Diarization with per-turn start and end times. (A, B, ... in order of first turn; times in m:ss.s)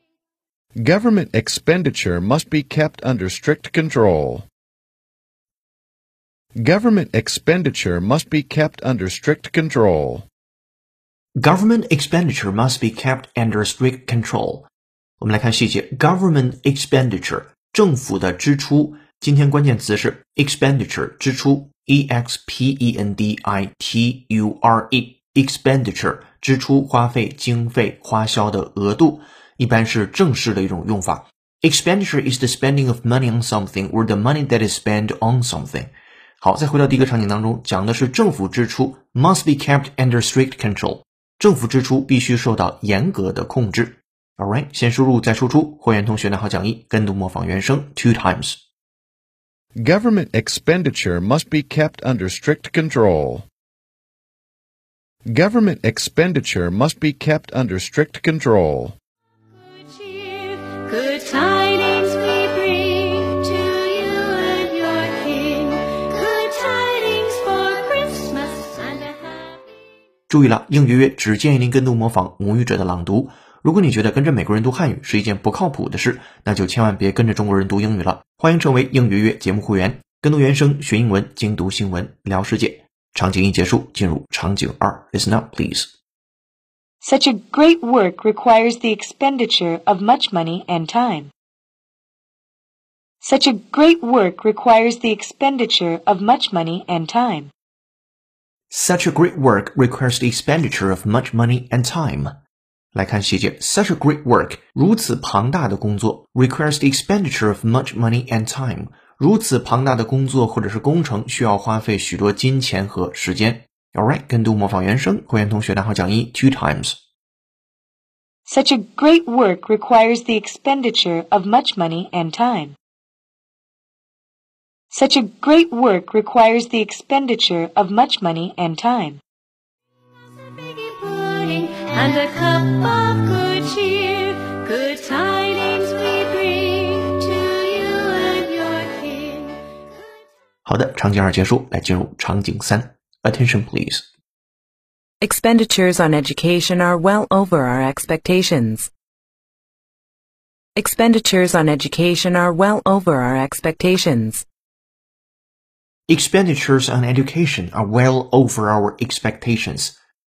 0:00.8-0:04.5 A
0:06.6-0:10.3 A
0:11.4-0:14.7 B
0:15.2-0:35.9 B
0:36.4-0:48.6 B
0:49.8-0:53.5 A
0:55.3-0:59.0 A
0:59.6-1:09.6 C
1:10.3-1:25.9 B
1:27.0-1:31.3 D
1:33.2-1:37.5 D
1:38.7-1:42.4 B
1:42.9-1:57.0 B
1:58.4-2:02.8 D
2:04.9-2:09.2 D
2:10.4-2:19.6 C
2:20.6-2:24.0 B
2:25.2-2:28.9 E
2:30.8-2:34.4 E
2:36.1-2:39.9 B